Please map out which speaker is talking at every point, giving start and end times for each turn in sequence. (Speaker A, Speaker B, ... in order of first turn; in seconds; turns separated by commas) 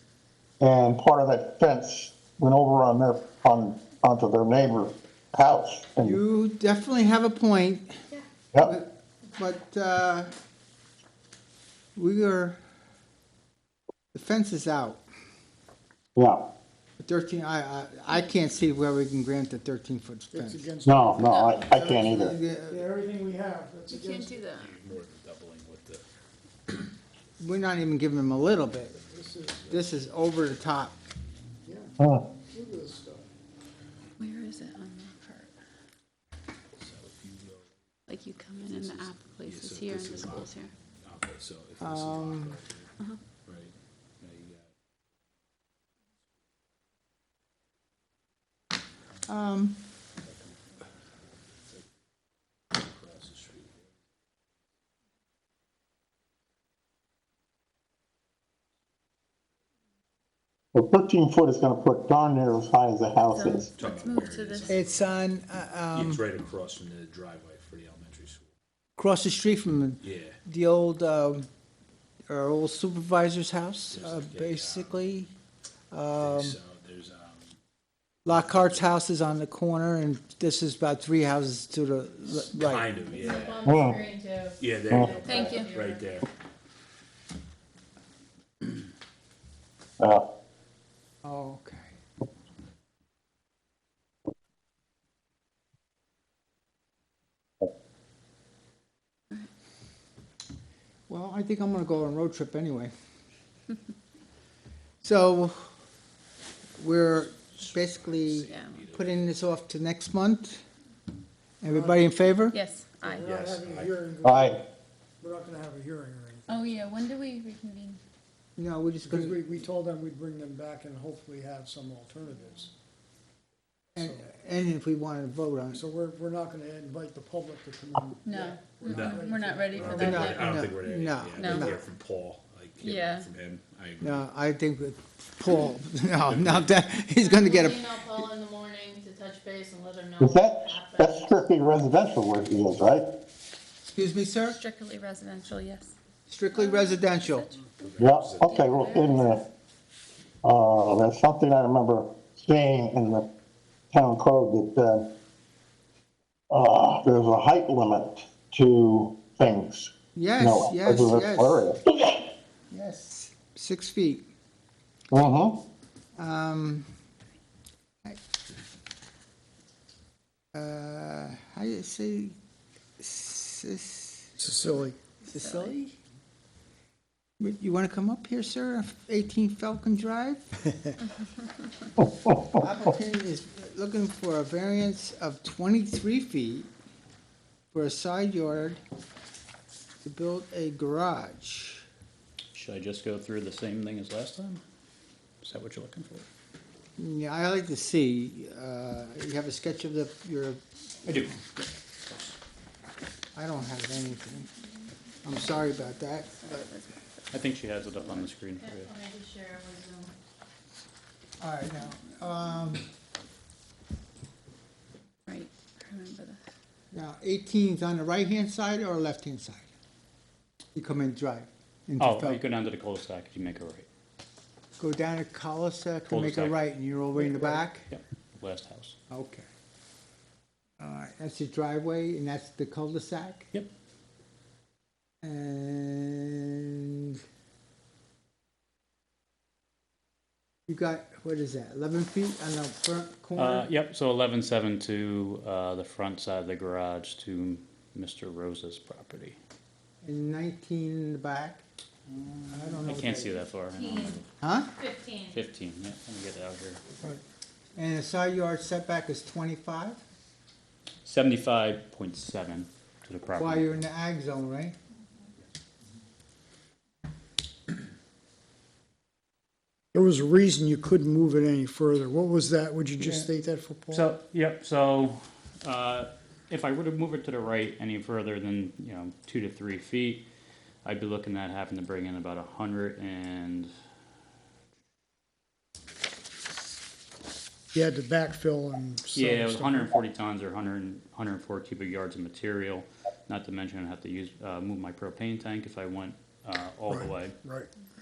Speaker A: 0.6-6.2, Speaker B: 6.0-8.0, Speaker B: 8.6-10.3, Speaker B: 11.9-12.6, Speaker B: 14.1-15.0, Speaker A: 16.1-16.4, Speaker B: 17.0-20.7, Speaker C: 20.3-22.0, Speaker A: 20.8-22.4, Speaker D: 21.3-21.7, Speaker B: 21.6-22.8, Speaker C: 22.7-24.4, Speaker D: 23.9-24.7, Speaker E: 24.3-26.0, Speaker B: 27.4-28.9, Speaker C: 29.1-29.7, Speaker B: 29.7-30.9, Speaker C: 31.6-31.9, Speaker A: 32.0-32.3, Speaker C: 32.5-33.2, Speaker D: 34.2-35.5, Speaker E: 36.8-37.7, Speaker D: 38.1-40.7, Speaker E: 38.6-42.9, Speaker B: 41.8-42.6, Speaker E: 43.4-44.7, Speaker B: 49.2-49.8, Speaker E: 52.8-53.9, Speaker A: 60.7-63.7, Speaker D: 63.3-64.8, Speaker E: 63.7-65.3, Speaker B: 64.7-66.2, Speaker E: 65.9-68.5, Speaker B: 69.0-71.5, Speaker E: 70.0-70.4, Speaker B: 72.3-75.3, Speaker E: 73.9-75.1, Speaker B: 75.9-76.6, Speaker E: 76.2-77.5, Speaker B: 78.2-82.9, Speaker E: 78.3-78.5, Speaker E: 82.3-83.7, Speaker F: 83.0-86.1, Speaker A: 83.6-84.0, Speaker E: 84.6-86.3, Speaker D: 85.2-85.7, Speaker A: 90.0-90.2, Speaker B: 91.2-91.9, Speaker B: 101.1-102.9, Speaker B: 105.0-105.7, Speaker B: 106.8-110.6, Speaker E: 106.9-109.3, Speaker D: 108.4-108.8, Speaker B: 111.6-112.5, Speaker C: 111.7-112.2, Speaker D: 112.5-113.3, Speaker C: 113.0-114.7, Speaker E: 113.2-114.0, Speaker A: 114.2-114.6, Speaker C: 115.2-116.5, Speaker D: 116.5-118.0, Speaker B: 118.6-119.4, Speaker C: 119.1-122.7, Speaker B: 124.0-125.8, Speaker C: 124.0-124.2, Speaker C: 125.7-130.2, Speaker D: 128.2-130.6, Speaker E: 128.8-134.3, Speaker B: 129.9-131.8, Speaker D: 131.3-131.7, Speaker D: 132.8-133.3, Speaker B: 134.0-138.2, Speaker E: 136.2-136.7, Speaker F: 137.2-141.4, Speaker A: 140.2-143.1, Speaker B: 143.8-144.6, Speaker D: 144.4-145.9, Speaker B: 146.3-147.5, Speaker D: 146.6-147.0, Speaker E: 147.8-148.6, Speaker A: 148.0-149.4, Speaker F: 148.5-149.2, Speaker D: 148.7-149.4, Speaker A: 150.4-153.3, Speaker A: 153.9-155.1, Speaker A: 156.5-162.1, Speaker B: 160.1-161.7, Speaker B: 162.7-164.3, Speaker A: 165.1-165.6, Speaker B: 166.2-166.9, Speaker B: 170.5-172.3, Speaker B: 173.0-174.3, Speaker C: 174.4-175.0, Speaker D: 175.3-175.7, Speaker B: 175.3-175.9, Speaker B: 177.4-180.4, Speaker B: 182.6-186.7, Speaker B: 187.7-188.8, Speaker B: 190.0-191.8, Speaker G: 192.5-194.6, Speaker G: 195.4-196.2, Speaker B: 197.0-200.6, Speaker G: 201.1-202.3, Speaker B: 203.3-204.5, Speaker B: 205.2-206.7, Speaker D: 206.2-207.4, Speaker G: 207.3-208.9, Speaker F: 208.6-210.1, Speaker B: 211.4-212.9, Speaker D: 215.3-216.4, Speaker B: 216.9-219.7, Speaker B: 220.7-222.4, Speaker G: 222.0-223.9, Speaker B: 224.8-227.9, Speaker G: 226.1-226.6, Speaker G: 227.9-228.9, Speaker B: 229.1-229.4, Speaker B: 230.8-233.5, Speaker B: 235.2-237.2, Speaker B: 240.7-243.7, Speaker G: 243.3-249.3, Speaker B: 250.0-251.6, Speaker B: 252.5-253.4, Speaker G: 252.8-254.2, Speaker F: 253.7-254.2, Speaker B: 254.4-254.7, Speaker F: 254.8-255.4, Speaker G: 255.3-256.8, Speaker B: 257.8-260.0, Speaker G: 261.0-263.8, Speaker B: 263.4-264.7, Speaker C: 269.9-274.1, Speaker G: 273.9-280.2, Speaker G: 280.8-283.7, Speaker C: 287.7-289.9, Speaker G: 289.1-297.4, Speaker C: 296.9-297.7